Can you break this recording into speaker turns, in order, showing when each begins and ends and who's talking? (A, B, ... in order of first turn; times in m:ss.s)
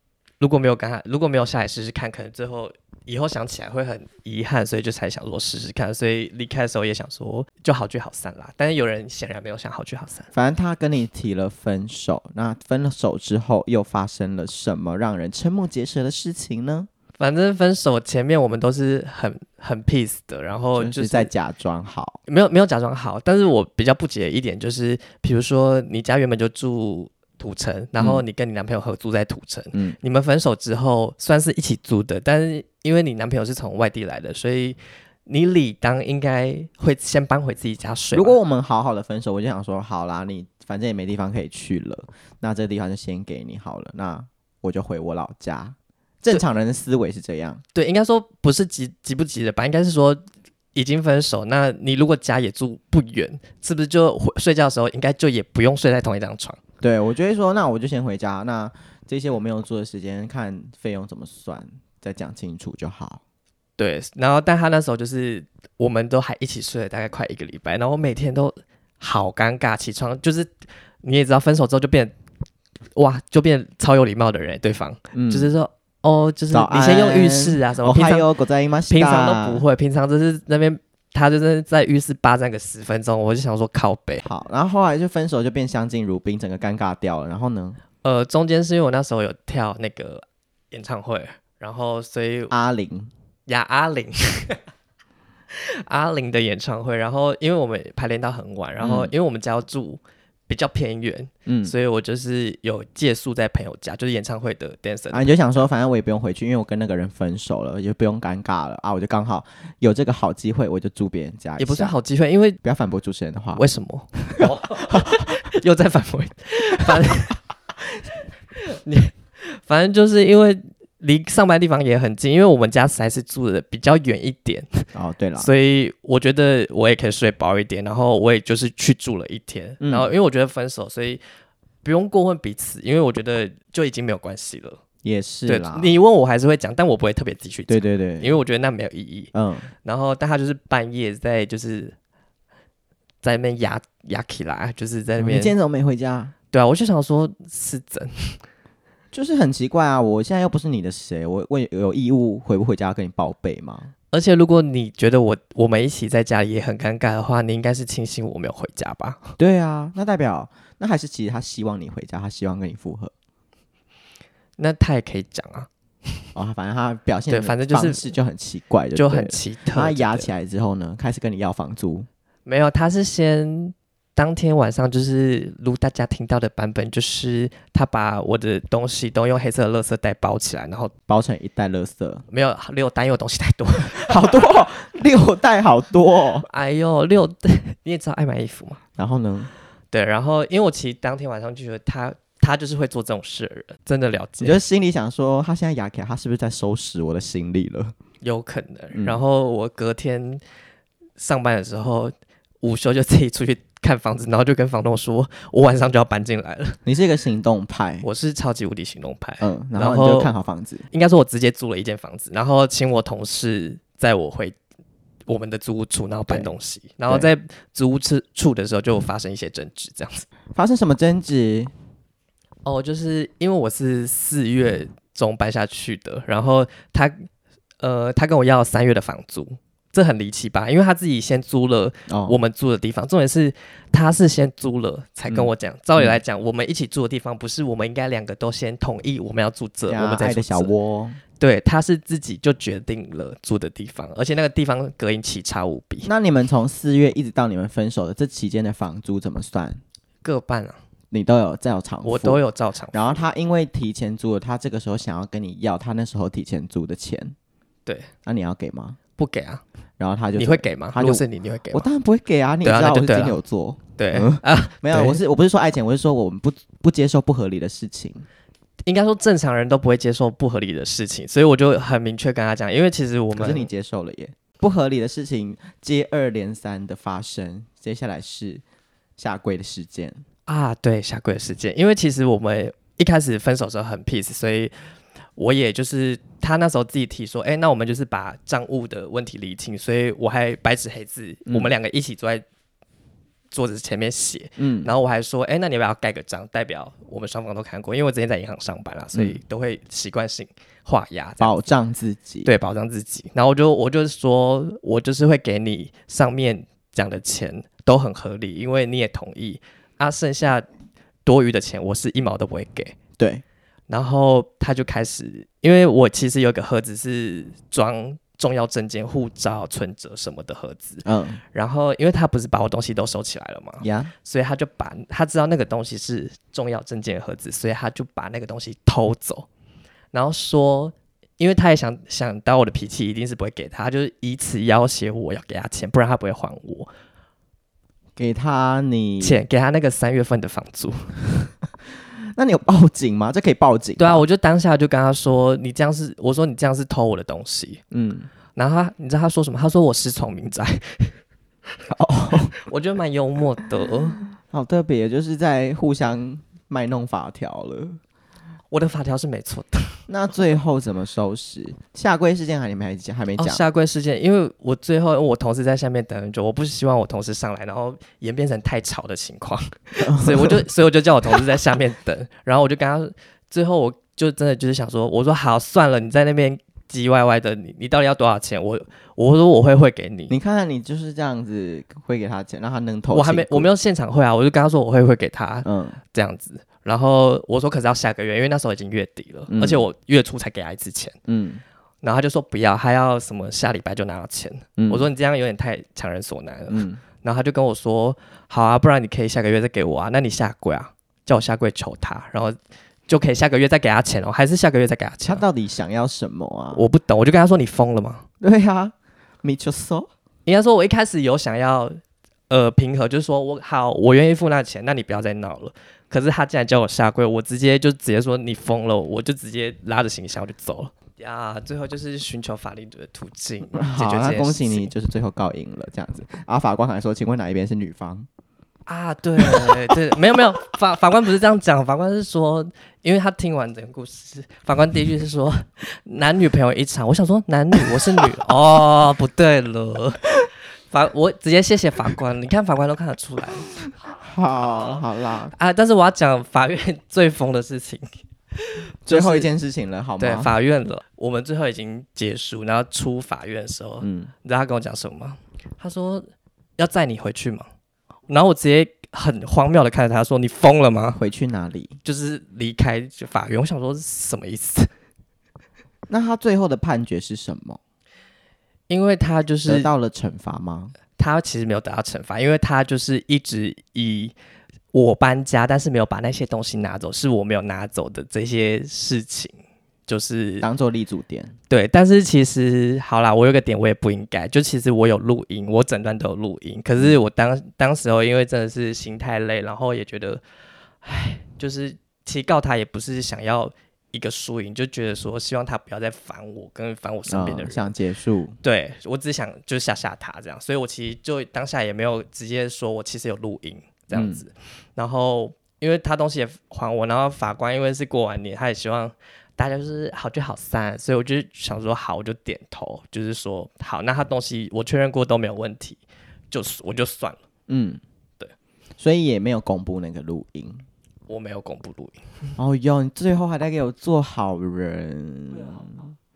0:00.4-0:10.3 A
0:10.3-0:16.9 B
0:17.2-0:21.3 A
0:20.7-0:22.2 B
0:22.3-0:38.4 A
0:28.0-0:28.2 B
0:38.1-0:47.6 B
0:47.7-0:50.2 A
0:50.7-0:56.6 A
0:56.8-1:03.2 B
1:03.8-1:12.1 A
1:13.0-1:18.3 A
1:15.1-1:15.5 B
1:16.5-1:19.6 B
1:18.9-1:24.2 A
1:24.2-1:27.8 B
1:28.0-1:32.5 A
1:32.5-1:33.1 B
1:33.5-1:34.6 A
1:35.5-1:45.3 A
1:38.8-1:39.1 B
1:41.4-1:41.7 B
1:45.1-1:51.9 B
1:51.6-1:52.6 A
1:52.6-1:53.6 B
1:53.5-1:57.4 A
1:54.4-1:55.4 B
1:56.9-1:57.1 B
1:58.5-2:11.2 A
2:04.9-2:05.5 B
2:09.8-2:10.1 B
2:11.8-2:14.8 A
2:15.0-2:16.0 B
2:15.5-2:19.3 A
2:17.7-2:18.3 B
2:19.3-2:19.7 B
2:19.8-2:21.9 A
2:23.2-2:25.5 A
2:25.2-2:26.3 B
2:26.5-2:28.4 A
2:29.1-2:33.9 B
2:34.1-2:39.3 A
2:39.4-2:43.1 B
2:44.6-2:46.2 A
2:46.3-2:52.1 B
2:47.3-2:48.1 A
2:48.9-2:50.3 A
2:52.4-3:00.9 A
3:01.1-3:02.2 B
3:02.3-3:04.4 A
3:03.9-3:06.4 B
3:06.4-3:08.8 A
3:09.0-3:09.5 B
3:09.9-3:14.6 A
3:14.4-3:17.9 B
3:18.2-3:20.4 A
3:18.9-3:19.2 B
3:21.2-3:26.8 A
3:26.8-3:28.0 B
3:28.0-3:30.3 A
3:29.4-3:30.8 B
3:30.9-3:34.6 A
3:35.3-3:40.3 A
3:40.5-3:41.7 B
3:42.6-3:47.3 A
3:47.8-4:00.7 A
3:52.1-3:52.4 B
3:55.3-3:56.2 B
3:59.9-4:01.2 B
4:01.4-4:06.1 A
4:06.0-4:09.8 B
4:10.2-4:10.8 A
4:11.1-4:17.3 B
4:12.0-4:13.2 A
4:18.2-4:19.0 B
4:19.2-4:19.6 A
4:20.0-4:28.2 B
4:20.4-4:21.9 A
4:22.6-4:23.4 A
4:24.0-4:25.2 A
4:28.9-4:33.7 A
4:33.4-4:38.6 B
4:39.2-4:40.2 B
4:40.5-4:44.7 A
4:45.4-4:52.4 A
4:51.5-4:51.7 B
4:53.5-5:01.6 A
4:54.6-4:54.9 B
4:59.1-4:59.4 B
5:01.4-5:02.5 B
5:02.4-5:10.7 A
5:11.2-5:13.0 A
5:13.2-5:13.4 B
5:13.9-5:29.5 A
5:21.0-5:21.4 B
5:23.8-5:24.1 B
5:30.1-5:36.9 A
5:38.2-5:39.4 B
5:39.2-5:41.2 A
5:42.3-5:44.2 B
5:44.0-5:47.8 A
5:47.9-5:48.3 B
5:48.6-5:51.1 A
5:51.9-5:52.5 B
5:52.5-5:54.2 A
5:54.5-5:58.0 B
5:58.7-6:00.0 A
6:00.1-6:03.6 B
6:03.4-6:20.4 A
6:10.0-6:10.6 B
6:20.3-6:23.7 B
6:23.1-6:31.2 A
6:25.6-6:26.0 B
6:29.5-6:29.8 B
6:31.3-6:31.6 B
6:32.0-6:42.6 A
6:34.8-6:35.1 B
6:36.7-6:37.0 B
6:43.1-6:45.4 A
6:45.2-6:46.8 B
6:46.7-6:48.2 A
6:48.4-6:50.1 B
6:50.4-6:52.0 A
6:52.5-7:04.9 A
7:03.7-7:08.3 B
7:08.9-7:20.3 A
7:09.4-7:09.9 B
7:20.9-7:23.7 A
7:24.0-7:25.5 B
7:25.5-7:29.5 A
7:29.0-7:30.5 B
7:30.2-7:37.6 A
7:34.0-7:34.3 B
7:38.3-7:41.2 A
7:41.2-7:41.9 B
7:42.0-7:44.9 A
7:46.1-7:47.8 B
7:48.9-7:49.9 A
7:49.6-7:50.9 B
7:51.2-7:54.3 A
7:54.9-7:59.6 A
8:00.1-8:00.7 A
8:00.6-8:01.5 B
8:01.7-8:10.4 A
8:11.0-8:17.9 A
8:17.3-8:18.6 B
8:18.6-8:36.0 A
8:24.1-8:24.4 B
8:36.5-8:37.4 A
8:37.7-8:38.0 B
8:39.0-8:40.8 B
8:41.3-8:42.5 A
8:42.6-8:46.1 B